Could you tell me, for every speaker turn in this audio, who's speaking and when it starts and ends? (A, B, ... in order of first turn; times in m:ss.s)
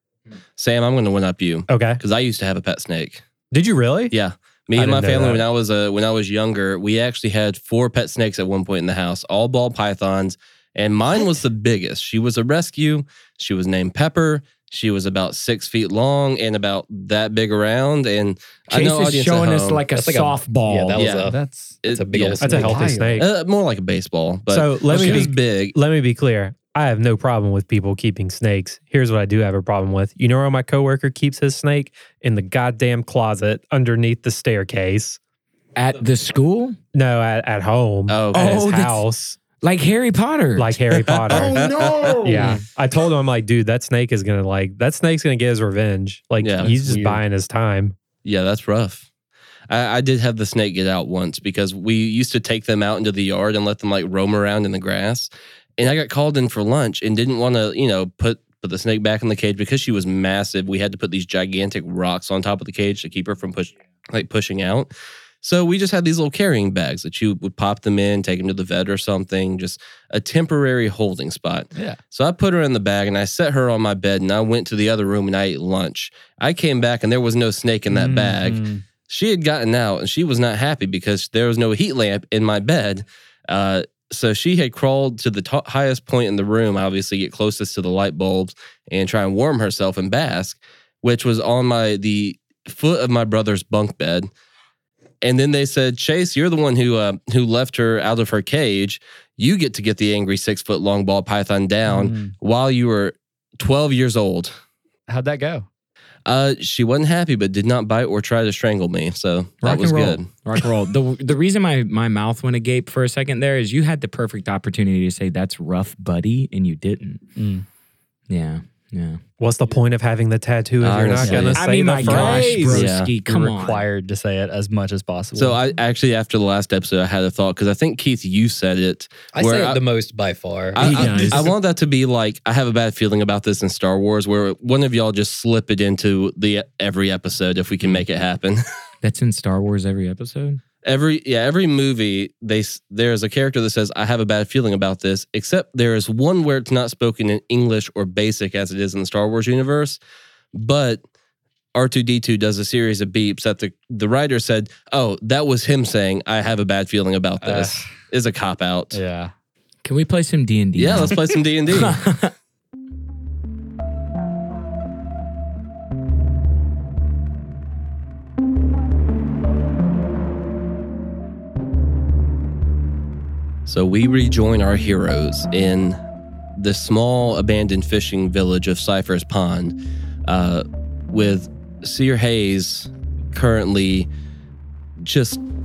0:00.6-0:03.2 A
0:01.7-0:02.0 B
0:03.5-0:04.1 B
0:04.1-0:19.8 A
0:04.7-0:05.4 B
0:18.7-0:21.0 C
0:19.9-0:22.9 D
0:20.9-0:21.3 A
0:21.3-0:21.8 E
0:21.8-0:22.5 A
0:22.4-0:23.3 E
0:22.4-0:23.3 B
0:23.2-0:25.7 A
0:24.5-0:35.2 B
0:25.0-0:25.2 E
0:35.8-0:36.8 C
0:36.9-0:39.4 B
0:38.1-0:38.6 A
0:38.3-0:39.0 C
0:39.6-0:40.8 C
0:40.6-0:47.9 B
0:41.3-0:42.2 A
0:41.6-0:42.6 D
0:41.8-0:42.6 E
0:46.4-0:46.8 A
0:46.6-0:47.2 E
0:48.2-0:49.1 A
0:49.7-1:04.9 A
1:05.4-1:34.3 A
1:17.9-1:18.8 E
1:35.2-1:44.5 A
1:41.9-1:42.3 E
1:45.1-1:45.7 E
1:46.2-1:50.3 A
1:49.6-1:50.2 E
1:50.4-1:57.2 C
1:57.4-1:57.6 E
1:58.3-1:59.2 C
1:59.4-2:02.8 B
2:00.8-2:03.1 A
2:01.2-2:05.6 E
2:01.5-2:03.8 C
2:05.4-2:09.8 A
2:09.3-2:11.0 D
2:10.7-2:18.6 A
2:10.8-2:11.5 C
2:10.8-2:11.4 E
2:19.0-2:20.6 C
2:20.8-2:30.0 A
2:30.5-2:31.0 A
2:31.7-2:39.0 A
2:37.4-2:37.9 E
2:38.9-2:39.3 E
2:39.8-2:42.3 C
2:40.8-2:42.0 A
2:53.6-2:56.0 A
2:56.6-3:04.1 A
3:05.0-3:05.4 A